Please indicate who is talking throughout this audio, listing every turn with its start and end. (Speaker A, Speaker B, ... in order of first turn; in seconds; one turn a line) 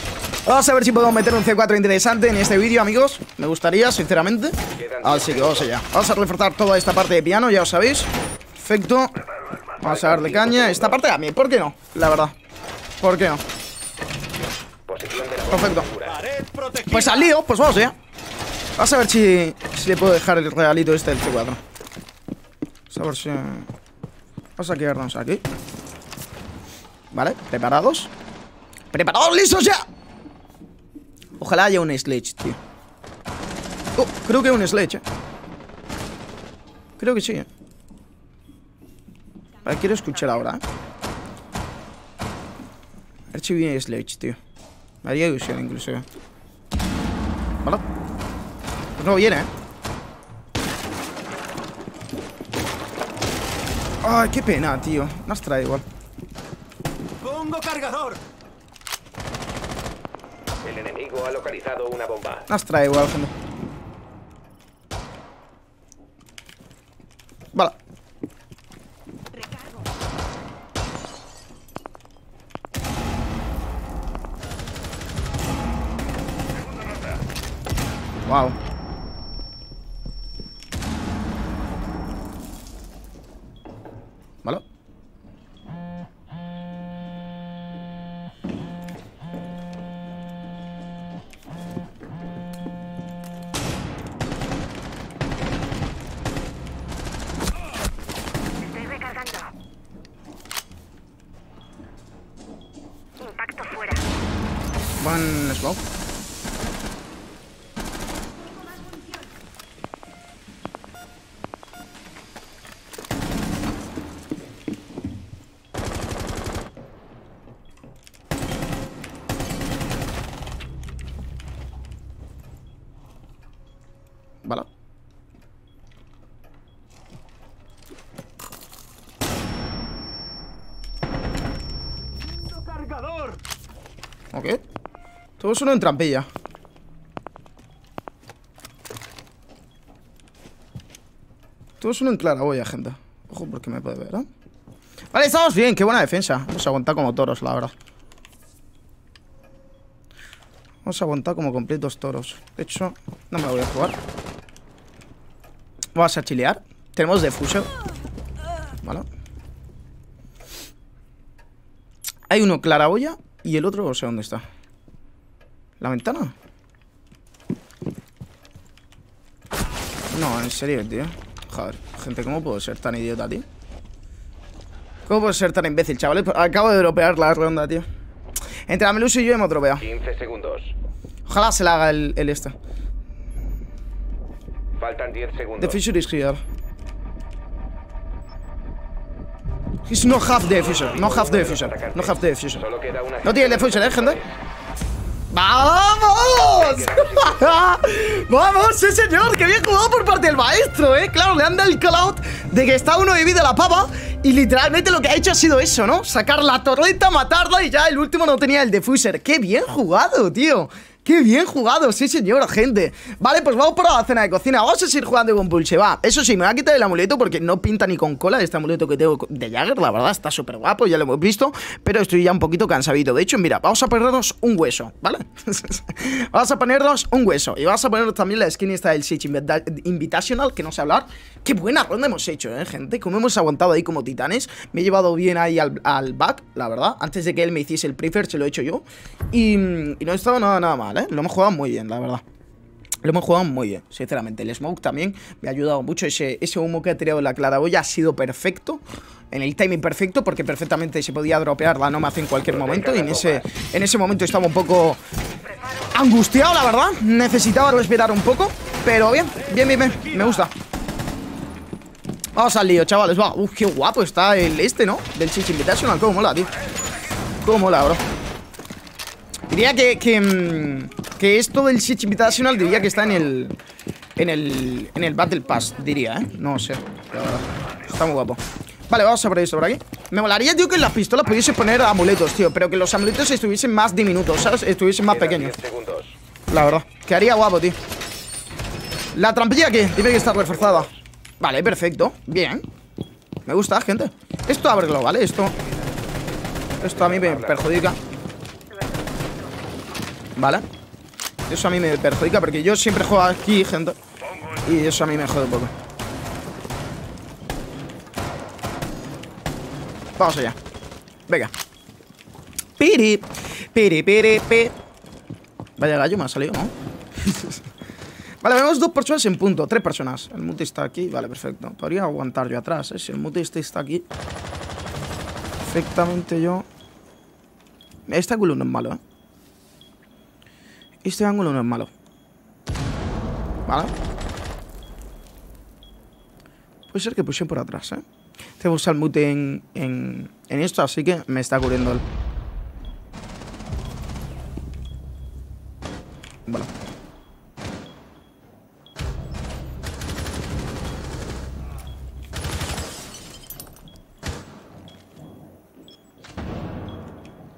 Speaker A: 0.4-9.2
Speaker B: 4.7-5.7
Speaker A: 9.8-12.3
Speaker B: 9.8-11.0
Speaker A: 13.0-13.4
Speaker B: 14.9-16.3
Speaker A: 15.5-15.9
Speaker C: 16.4-16.6
Speaker A: 16.7-17.9
Speaker A: 18.8-21.6
Speaker A: 22.9-23.7
Speaker A: 24.6-25.4
Speaker A: 27.1-28.1
Speaker A: 28.9-29.8
Speaker A: 31.4-32.6
Speaker A: 34.0-35.0
Speaker A: 37.0-37.5
Speaker A: 39.6-40.6
Speaker A: 43.3-44.4
Speaker A: 45.0-46.0
Speaker A: 49.0-49.5
Speaker A: 54.0-55.8
Speaker C: 57.2-58.2
Speaker B: 60.6-62.5
Speaker A: 62.5-63.3
Speaker A: 78.2-78.5
Speaker C: 98.8-99.3
Speaker C: 103.3-103.9
Speaker A: 105.0-105.8
Speaker C: 132.6-133.4
Speaker A: 134.3-134.6
Speaker A: 135.4-136.3
Speaker A: 141.8-144.3
Speaker A: 145.1-147.7
Speaker A: 150.8-154.0
Speaker A: 155.9-157.7
Speaker A: 162.3-164.4
Speaker A: 165.8-166.3
Speaker A: 170.1-173.4
Speaker A: 175.1-177.8
Speaker A: 178.7-179.9
Speaker B: 179.8-180.7
Speaker A: 181.2-182.5
Speaker B: 184.8-185.8
Speaker A: 185.6-186.4
Speaker A: 189.9-192.7
Speaker B: 190.5-194.3
Speaker A: 193.2-194.2
Speaker A: 195.3-242.2
Speaker B: 196.4-197.4
Speaker A: 243.0-255.0
Speaker B: 252.5-253.4
Speaker A: 255.8-260.5
Speaker A: 262.3-266.5
Speaker A: 267.4-268.0
Speaker A: 269.5-273.6
Speaker A: 274.2-285.6
Speaker B: 285.1-286.1
Speaker A: 286.5-287.8
Speaker A: 289.1-292.6
Speaker B: 290.3-290.9
Speaker A: 293.4-295.6
Speaker A: 296.8-298.0
Speaker B: 296.8-297.7
Speaker A: 300.4-300.6
Speaker A: 301.5-304.0
Speaker A: 304.5-305.7
Speaker A: 310.2-310.6
Speaker A: 312.8-314.8
Speaker A: 315.8-317.6
Speaker A: 318.4-324.1
Speaker A: 325.6-326.7
Speaker A: 328.1-329.0
Speaker A: 331.0-331.9
Speaker A: 333.7-333.9
Speaker A: 336.9-338.0
Speaker A: 338.6-342.0